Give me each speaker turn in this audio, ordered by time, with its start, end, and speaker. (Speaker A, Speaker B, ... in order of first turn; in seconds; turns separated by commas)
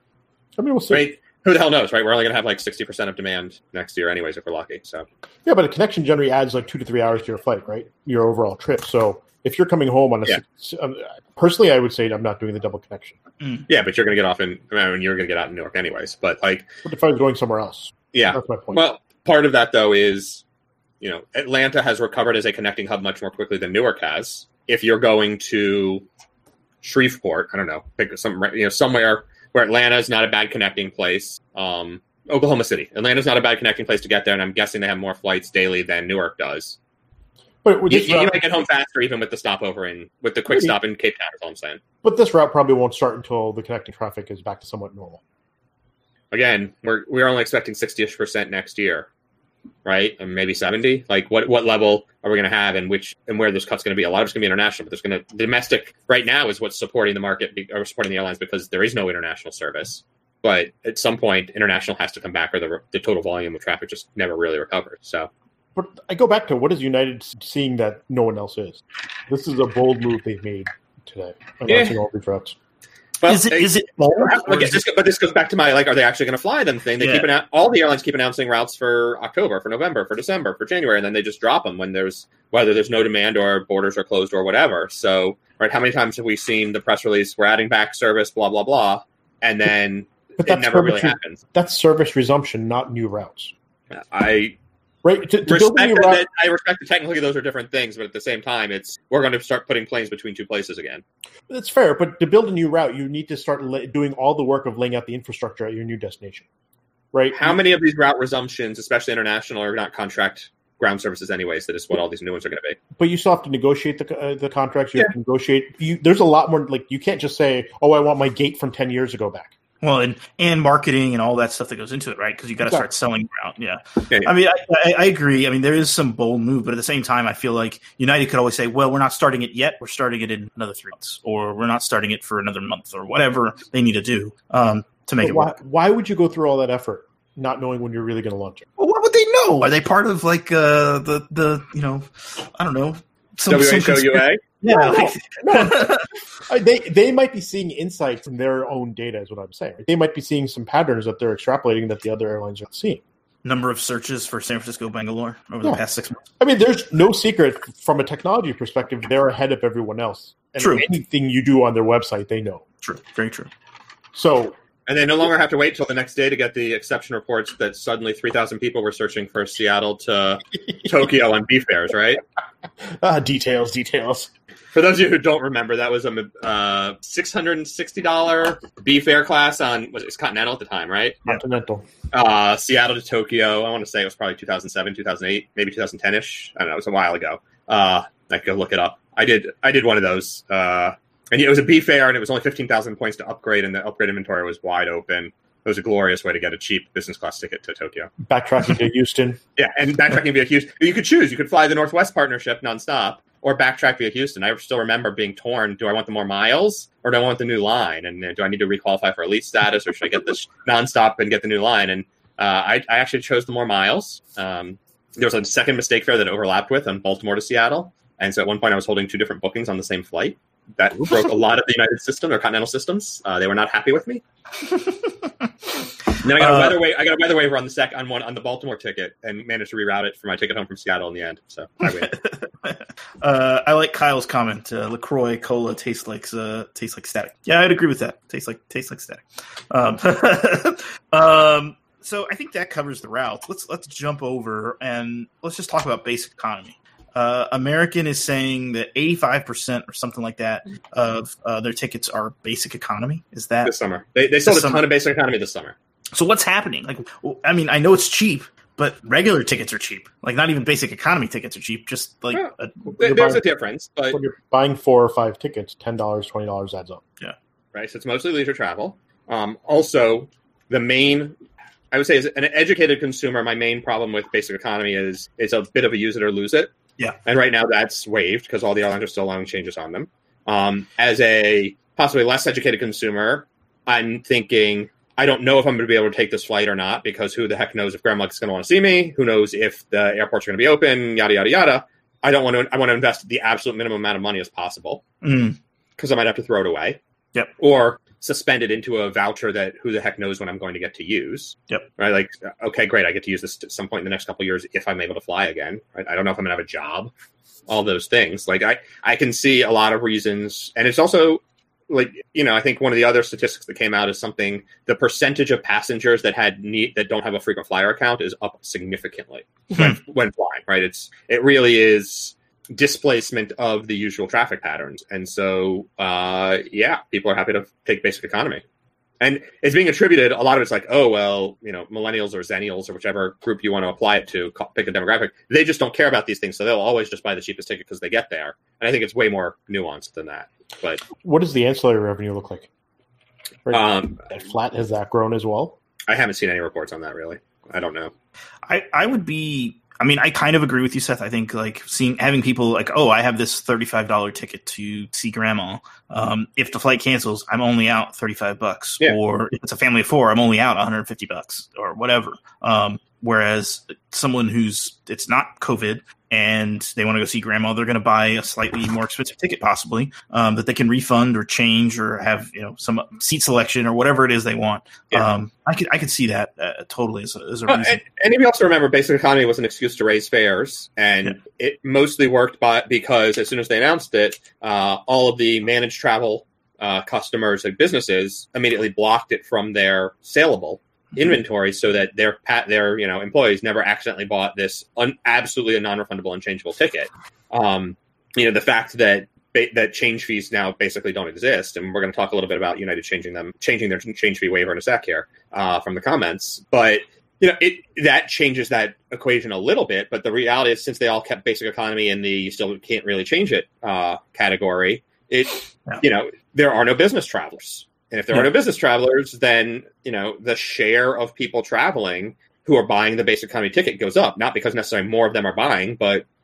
Speaker A: 0.6-1.1, Speaker B: 0.9-5.0, Speaker A: 5.5-13.2, Speaker C: 13.4-13.7, Speaker B: 13.7-16.7, Speaker A: 16.8-18.8, Speaker B: 18.1-20.4, Speaker B: 21.0-26.0, Speaker B: 26.8-36.8, Speaker A: 37.6-38.4, Speaker B: 37.9-41.8, Speaker A: 40.5-40.7, Speaker A: 42.0-45.2, Speaker B: 46.3-49.1, Speaker B: 49.8-65.3, Speaker A: 65.7-72.5, Speaker B: 71.7-72.0, Speaker B: 73.2-91.4, Speaker C: 73.2-74.8, Speaker C: 77.0-77.3, Speaker A: 90.4-93.5, Speaker B: 93.9-94.6, Speaker A: 95.0-96.2, Speaker B: 95.5-101.0, Speaker A: 101.5-106.5, Speaker A: 107.1-107.6, Speaker B: 107.3-112.8, Speaker A: 113.0-119.5, Speaker C: 119.8-135.6, Speaker A: 135.2-138.7, Speaker C: 138.8-146.1, Speaker B: 143.5-144.4, Speaker A: 144.7-153.0, Speaker C: 153.4-156.2, Speaker A: 156.4-162.6, Speaker C: 160.6-160.8, Speaker C: 162.8-163.5, Speaker A: 164.1-164.6, Speaker B: 164.9-172.2, Speaker A: 172.8-174.3, Speaker B: 174.7-181.2, Speaker A: 181.2-181.8, Speaker B: 182.1-198.1, Speaker A: 198.2-199.4, Speaker B: 199.6-224.2, Speaker C: 224.7-225.5, Speaker C: 226.2-226.8, Speaker B: 226.2-232.1, Speaker C: 231.8-253.7, Speaker B: 253.6-255.7, Speaker C: 254.4-254.8, Speaker C: 256.1-262.9, Speaker B: 262.3-264.2, Speaker A: 263.0-263.4, Speaker A: 264.1-267.0, Speaker B: 267.7-271.4, Speaker B: 271.9-276.7, Speaker B: 277.2-295.0, Speaker C: 295.2-295.6, Speaker B: 296.0-297.0, Speaker B: 297.6-307.1, Speaker B: 307.7-328.6, Speaker B: 329.2-341.1, Speaker A: 341.2-342.7, Speaker A: 343.6-345.8, Speaker B: 343.7-344.2, Speaker B: 346.1-348.1, Speaker C: 348.7-378.0, Speaker B: 377.7-426.2